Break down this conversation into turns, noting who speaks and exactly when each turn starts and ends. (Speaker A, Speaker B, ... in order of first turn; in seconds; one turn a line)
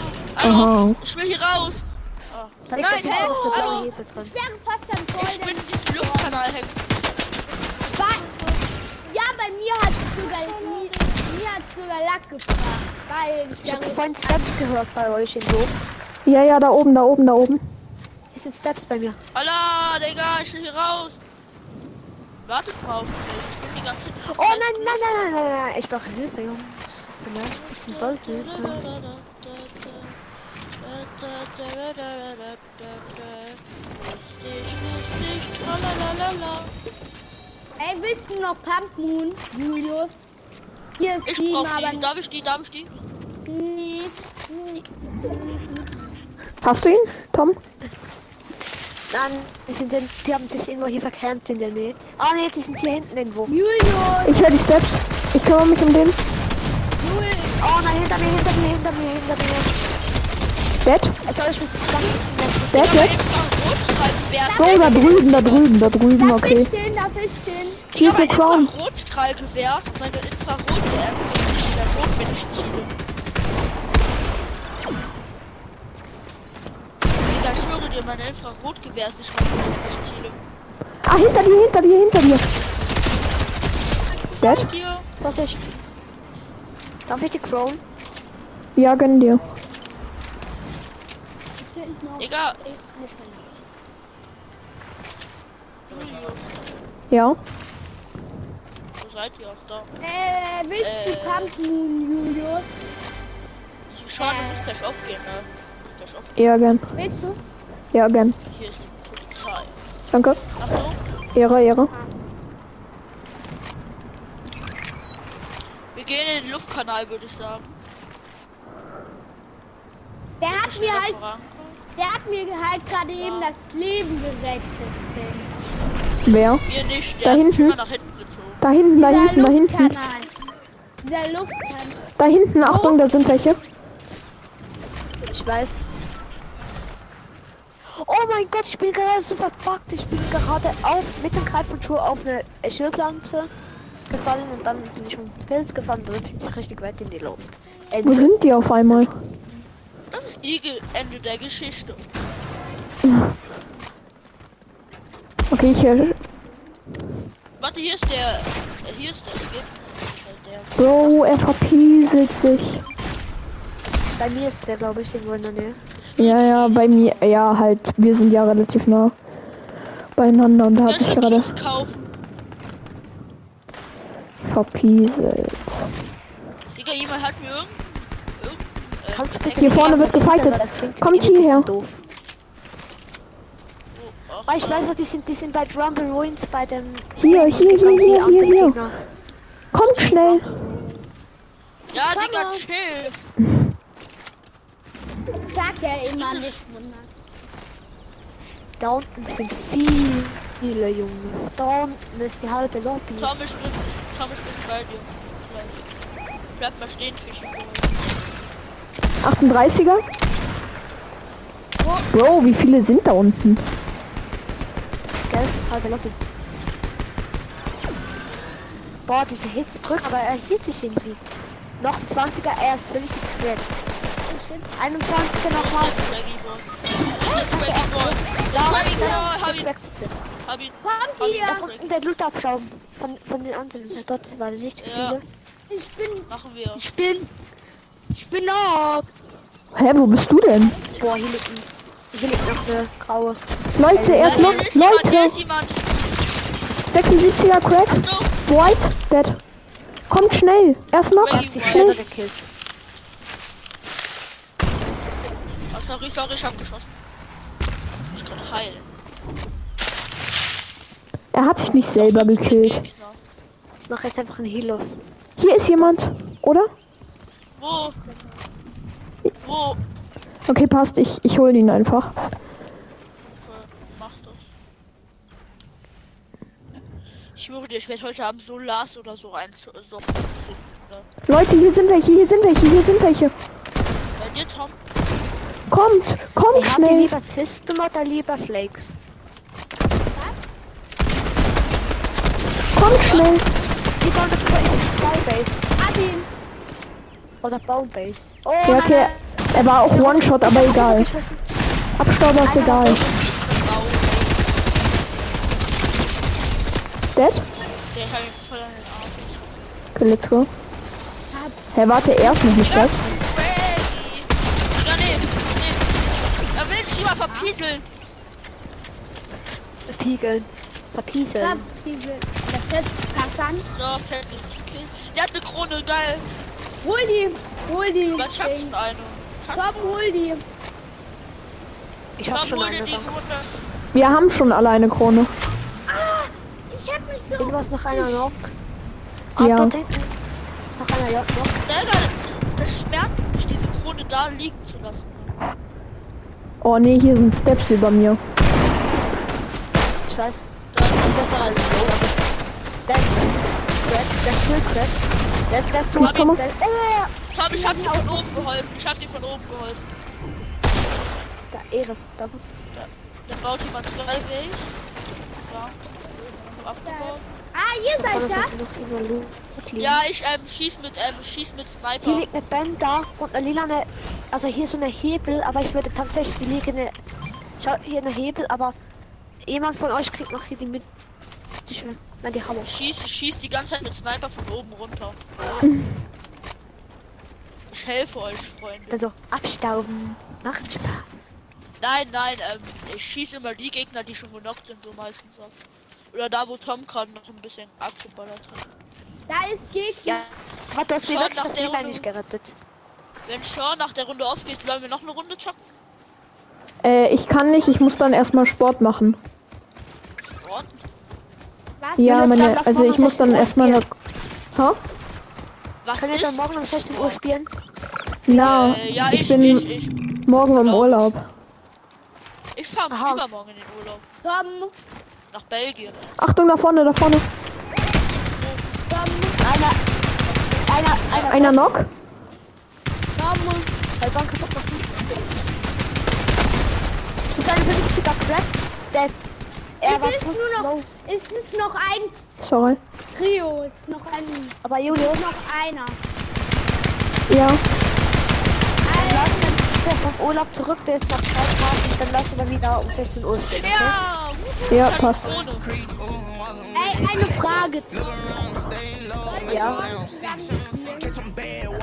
Speaker A: 0.2-3.9
Speaker B: 0.4-1.0
Speaker C: 2.7-4.3
Speaker D: 3.0-6.4
Speaker A: 5.2-6.8
Speaker D: 7.9-8.3
Speaker A: 8.1-8.6
Speaker D: 9.0-14.6
Speaker A: 10.2-11.2
Speaker C: 13.6-15.7
Speaker B: 16.2-17.6
Speaker C: 18.3-19.2
Speaker A: 19.3-21.2
Speaker A: 22.4-25.5
Speaker C: 24.3-28.8
Speaker A: 27.5-30.2
Speaker A: 30.8-36.7
Speaker D: 37.8-40.2
Speaker D: 41.0-42.1
Speaker A: 41.2-42.9
Speaker D: 43.5-45.9
Speaker B: 46.6-47.6
Speaker C: 49.1-53.5
Speaker D: 53.5-54.4
Speaker B: 54.2-56.2
Speaker D: 57.0-57.6
Speaker C: 57.6-59.7
Speaker D: 58.2-58.5
Speaker B: 60.8-61.2
Speaker C: 61.2-63.1
Speaker B: 62.7-63.1
Speaker A: 62.7-65.7
Speaker D: 64.4-65.2
Speaker B: 64.5-66.7
Speaker D: 66.2-67.8
Speaker A: 67.9-72.9
Speaker B: 67.9-68.7
Speaker A: 77.2-80.4
Speaker B: 81.0-82.4
Speaker A: 84.2-85.0
Speaker B: 84.4-84.7
Speaker C: 85.2-85.7
Speaker C: 87.1-87.8
Speaker B: 88.8-89.4
Speaker D: 91.6-92.3
Speaker A: 92.2-92.8
Speaker D: 92.9-93.5
Speaker A: 95.9-96.8
Speaker B: 97.1-97.4
Speaker A: 99.0-99.9
Speaker D: 100.0-102.7
Speaker A: 100.8-101.5
Speaker A: 103.9-106.3
Speaker D: 104.2-104.6
Speaker B: 106.4-106.8
Speaker D: 107.0-107.4
Speaker B: 107.9-108.4
Speaker A: 108.5-109.8
Speaker B: 110.1-110.5
Speaker A: 110.6-111.0
Speaker B: 111.3-111.9
Speaker A: 115.9-117.7
Speaker D: 120.4-121.2
Speaker A: 120.5-121.8
Speaker D: 122.0-125.5
Speaker A: 123.2-123.5
Speaker B: 126.2-126.6
Speaker A: 126.7-128.6
Speaker B: 127.2-127.8
Speaker B: 128.6-130.1
Speaker D: 128.9-130.3
Speaker D: 131.0-132.0
Speaker B: 132.2-133.6
Speaker D: 132.6-133.0
Speaker C: 135.3-135.8
Speaker C: 137.8-143.5
Speaker C: 144.1-149.3
Speaker B: 148.0-149.2
Speaker A: 150.1-152.0
Speaker B: 153.0-153.3
Speaker B: 155.5-156.2
Speaker A: 157.6-161.2
Speaker B: 160.8-162.8
Speaker C: 164.2-165.8
Speaker A: 165.9-167.4
Speaker B: 166.2-169.1
Speaker B: 170.2-171.6
Speaker A: 170.8-172.0
Speaker B: 174.4-175.9
Speaker A: 176.7-177.8
Speaker A: 178.4-180.1
Speaker C: 179.1-182.0
Speaker B: 179.6-181.7
Speaker A: 183.9-184.9
Speaker C: 184.4-189.0
Speaker B: 187.2-188.8
Speaker B: 189.7-190.5
Speaker A: 189.7-191.1
Speaker A: 191.9-193.2
Speaker D: 192.0-192.6
Speaker D: 195.4-197.1
Speaker A: 196.1-196.6
Speaker C: 198.8-203.3
Speaker A: 203.2-205.8
Speaker A: 206.6-208.2
Speaker B: 209.2-210.0
Speaker B: 212.1-213.7
Speaker C: 215.2-216.2
Speaker C: 219.1-221.2
Speaker C: 221.8-223.7
Speaker D: 224.2-224.7
Speaker C: 224.8-226.0
Speaker A: 225.3-229.7
Speaker C: 227.2-230.2
Speaker A: 230.4-231.9
Speaker D: 230.8-231.7
Speaker C: 231.4-235.2
Speaker A: 234.8-235.2
Speaker D: 235.7-237.3
Speaker A: 236.3-236.8
Speaker D: 238.1-239.1
Speaker B: 239.7-240.7
Speaker C: 241.0-243.4
Speaker B: 243.8-245.4
Speaker C: 243.9-244.6
Speaker A: 244.2-245.8
Speaker B: 246.9-249.4
Speaker A: 247.9-248.3
Speaker B: 250.1-252.0
Speaker A: 251.1-252.2
Speaker C: 251.2-252.5
Speaker A: 255.7-256.9
Speaker A: 258.0-258.9
Speaker B: 261.3-262.8
Speaker A: 261.9-263.2
Speaker C: 263.9-265.0
Speaker B: 265.4-266.7
Speaker A: 267.6-268.0
Speaker A: 269.4-269.8
Speaker B: 270.5-272.3
Speaker A: 273.4-274.5
Speaker A: 277.3-281.1
Speaker B: 281.3-283.3
Speaker A: 284.2-284.8
Speaker B: 285.7-287.1
Speaker C: 286.5-288.9
Speaker D: 290.1-290.4
Speaker B: 292.7-293.4
Speaker A: 293.0-293.4
Speaker C: 294.0-295.6
Speaker D: 295.8-296.3
Speaker C: 297.4-299.1
Speaker B: 298.6-301.1
Speaker C: 299.8-301.4
Speaker B: 302.0-303.0
Speaker C: 302.4-303.0
Speaker A: 302.7-304.6
Speaker B: 307.1-307.5
Speaker A: 307.9-309.7
Speaker B: 309.9-310.5
Speaker D: 311.3-312.5
Speaker B: 311.7-313.1
Speaker A: 312.6-315.8
Speaker A: 316.5-317.9
Speaker C: 319.9-321.7
Speaker D: 321.4-323.7
Speaker A: 323.7-326.3
Speaker D: 326.8-328.8
Speaker A: 328.1-329.9
Speaker D: 329.5-330.4
Speaker C: 332.2-333.1
Speaker A: 332.3-333.7
Speaker B: 333.9-335.3
Speaker D: 335.9-338.3
Speaker C: 337.4-338.5
Speaker C: 339.4-340.2
Speaker B: 339.4-339.7
Speaker C: 340.7-341.6
Speaker A: 341.6-345.3
Speaker B: 346.6-348.2
Speaker C: 350.1-352.2
Speaker A: 350.7-352.1
Speaker C: 352.9-357.1
Speaker B: 355.9-356.4
Speaker A: 356.0-356.3
Speaker A: 357.3-359.9
Speaker D: 357.5-358.5
Speaker C: 361.5-362.4
Speaker A: 362.7-364.8
Speaker A: 365.4-365.8
Speaker A: 366.4-367.2
Speaker D: 366.8-368.5
Speaker C: 367.9-370.0
Speaker A: 369.8-372.3
Speaker C: 372.0-376.9
Speaker C: 377.6-378.8
Speaker C: 379.4-380.9
Speaker C: 381.6-382.7
Speaker A: 382.6-385.6
Speaker A: 387.7-389.0
Speaker C: 388.9-391.1
Speaker A: 391.8-395.5
Speaker A: 396.1-398.6
Speaker D: 399.3-400.3
Speaker C: 400.0-402.6
Speaker A: 401.0-402.1
Speaker A: 403.2-405.6
Speaker B: 406.8-409.2
Speaker A: 410.4-410.8
Speaker D: 411.8-412.3
Speaker B: 412.0-413.9
Speaker C: 412.0-413.8
Speaker B: 414.5-414.8
Speaker A: 415.8-417.2
Speaker C: 415.9-417.5
Speaker B: 418.3-419.6
Speaker A: 418.3-421.1
Speaker B: 420.2-421.3
Speaker A: 422.5-424.0
Speaker C: 422.9-423.2
Speaker D: 424.2-424.7
Speaker A: 425.3-426.0
Speaker B: 426.2-427.3
Speaker A: 428.1-428.6
Speaker D: 428.9-429.4
Speaker C: 429.4-429.8
Speaker A: 430.2-431.6
Speaker C: 430.6-431.8
Speaker B: 431.3-431.9
Speaker D: 433.1-433.7
Speaker C: 434.0-434.9
Speaker C: 437.3-439.2
Speaker C: 439.8-440.9
Speaker D: 439.8-442.4
Speaker B: 442.4-442.8
Speaker D: 443.1-446.0
Speaker C: 444.6-445.3
Speaker B: 447.3-447.6
Speaker D: 448.8-449.7
Speaker C: 448.9-454.0
Speaker A: 453.5-455.7
Speaker B: 454.7-455.3
Speaker D: 456.7-458.6
Speaker D: 459.2-461.2
Speaker C: 459.4-459.9